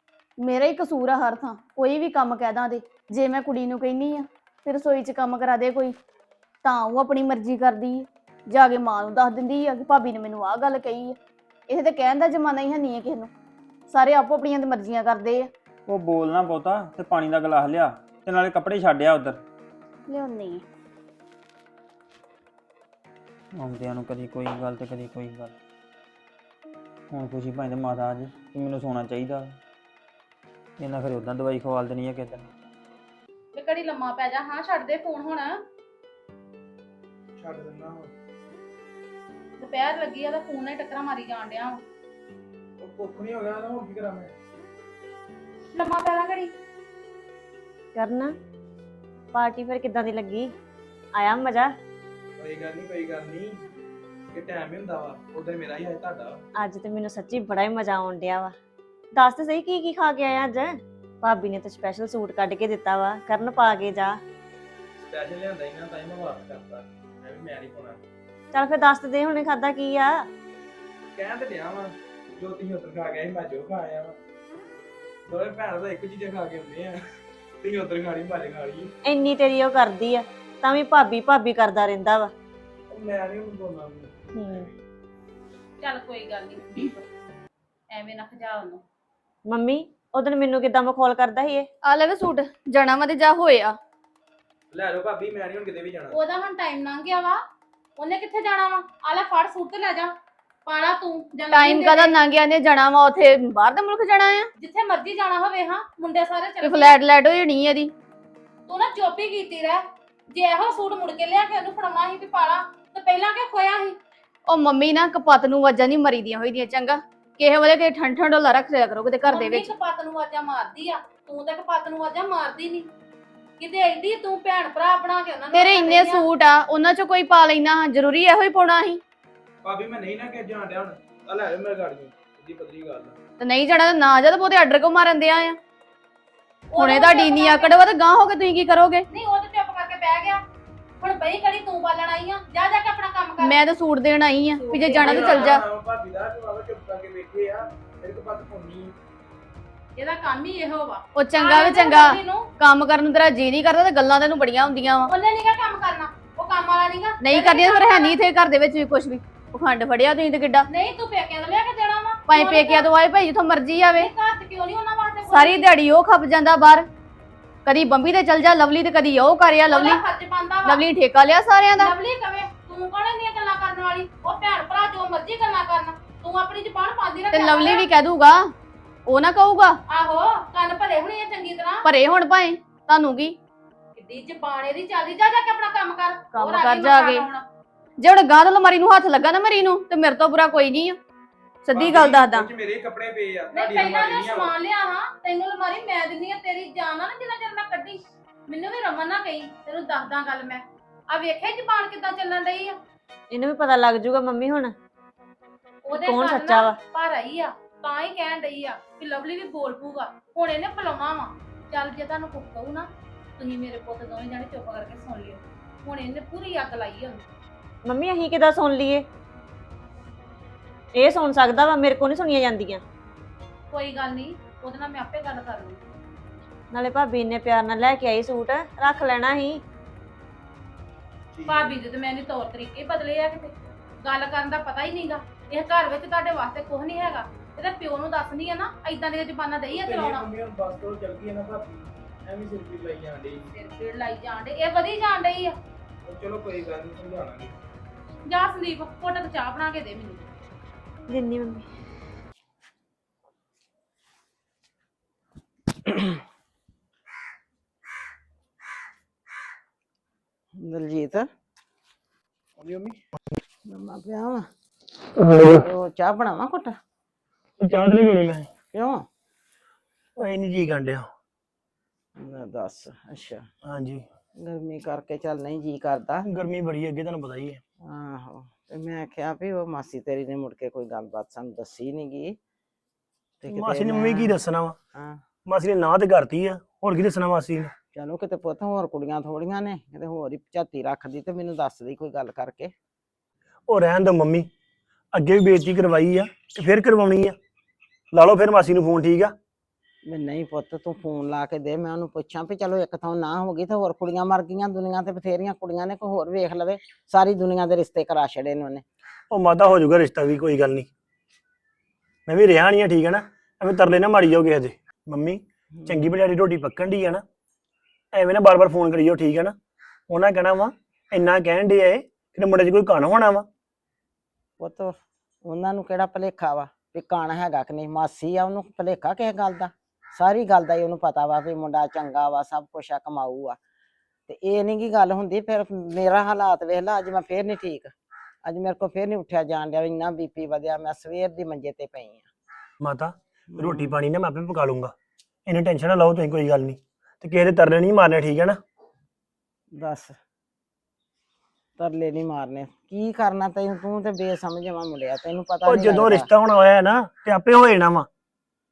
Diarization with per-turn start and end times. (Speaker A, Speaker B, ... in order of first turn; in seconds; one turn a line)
Speaker A: 0.4-5.9
Speaker A: 6.6-11.1
Speaker A: 11.7-13.3
Speaker A: 13.9-15.5
Speaker B: 15.9-19.4
Speaker A: 20.1-20.6
Speaker B: 23.6-25.5
Speaker B: 27.1-29.6
Speaker B: 30.8-32.5
Speaker C: 33.5-35.5
Speaker D: 37.4-38.1
Speaker C: 39.6-41.8
Speaker D: 42.8-44.3
Speaker C: 45.7-46.5
Speaker E: 47.9-48.3
Speaker E: 49.3-50.5
Speaker E: 51.1-51.7
Speaker D: 52.4-53.6
Speaker D: 54.3-56.4
Speaker E: 56.5-58.5
Speaker E: 59.1-64.2
Speaker D: 65.0-68.0
Speaker E: 68.5-70.2
Speaker D: 71.2-74.1
Speaker D: 75.3-77.0
Speaker D: 77.6-78.9
Speaker E: 79.0-82.3
Speaker D: 82.9-84.1
Speaker E: 84.3-84.7
Speaker C: 85.8-87.0
Speaker C: 87.9-88.8
Speaker E: 89.5-91.7
Speaker A: 91.8-93.8
Speaker D: 94.7-96.2
Speaker C: 96.1-97.4
Speaker C: 98.0-100.1
Speaker C: 100.7-102.2
Speaker A: 101.5-104.5
Speaker C: 104.6-107.0
Speaker A: 106.6-107.9
Speaker C: 108.7-114.0
Speaker A: 114.5-119.7
Speaker C: 119.3-122.9
Speaker C: 123.6-126.2
Speaker A: 125.5-129.0
Speaker D: 129.6-133.1
Speaker A: 133.4-135.6
Speaker C: 136.7-137.8
Speaker A: 136.8-139.1
Speaker C: 139.1-140.4
Speaker C: 141.0-143.6
Speaker A: 143.4-145.6
Speaker C: 144.6-145.6
Speaker D: 144.9-148.9
Speaker C: 150.0-152.5
Speaker A: 151.1-155.1
Speaker C: 155.1-158.2
Speaker A: 157.2-160.7
Speaker C: 160.7-162.9
Speaker A: 162.3-164.1
Speaker C: 163.9-165.7
Speaker A: 165.3-166.8
Speaker A: 167.7-170.0
Speaker C: 169.7-170.8
Speaker A: 170.6-171.9
Speaker C: 171.8-177.9
Speaker A: 177.3-178.4
Speaker A: 179.1-179.8
Speaker C: 179.9-181.8
Speaker A: 181.8-183.3
Speaker C: 184.0-187.4
Speaker A: 186.3-187.3
Speaker A: 188.0-191.0
Speaker A: 191.7-192.5
Speaker D: 191.7-194.6
Speaker C: 193.5-202.7
Speaker E: 203.3-204.7
Speaker C: 205.8-212.9
Speaker E: 205.9-206.8
Speaker C: 213.4-217.2
Speaker E: 217.8-219.0
Speaker E: 220.9-222.8
Speaker C: 223.7-225.8
Speaker E: 226.7-229.6
Speaker D: 231.4-231.8
Speaker C: 231.4-233.5
Speaker C: 234.0-240.3
Speaker D: 239.8-243.5
Speaker C: 243.5-245.5
Speaker D: 246.1-247.5
Speaker C: 248.3-250.2
Speaker E: 251.1-251.6
Speaker F: 260.6-261.3
Speaker D: 262.6-262.9
Speaker F: 263.7-264.5
Speaker F: 265.3-266.7
Speaker G: 267.6-268.5
Speaker F: 268.7-269.0
Speaker G: 270.2-271.1
Speaker F: 272.2-273.5
Speaker G: 273.6-274.0
Speaker F: 274.4-276.2
Speaker G: 276.3-277.6
Speaker F: 277.8-282.4
Speaker F: 283.4-284.4
Speaker G: 283.5-284.8
Speaker G: 285.4-287.7
Speaker F: 287.9-292.7
Speaker G: 293.7-294.5
Speaker G: 295.1-297.3
Speaker G: 298.1-299.3
Speaker F: 300.1-308.8
Speaker G: 309.3-310.9
Speaker G: 312.3-317.2
Speaker G: 318.1-319.5
Speaker G: 320.1-323.4
Speaker F: 324.6-333.6
Speaker F: 334.3-337.9
Speaker F: 338.4-342.3
Speaker G: 342.8-344.9
Speaker F: 343.5-343.9
Speaker G: 345.4-348.6
Speaker F: 349.7-350.1
Speaker F: 351.8-356.3
Speaker G: 355.6-358.1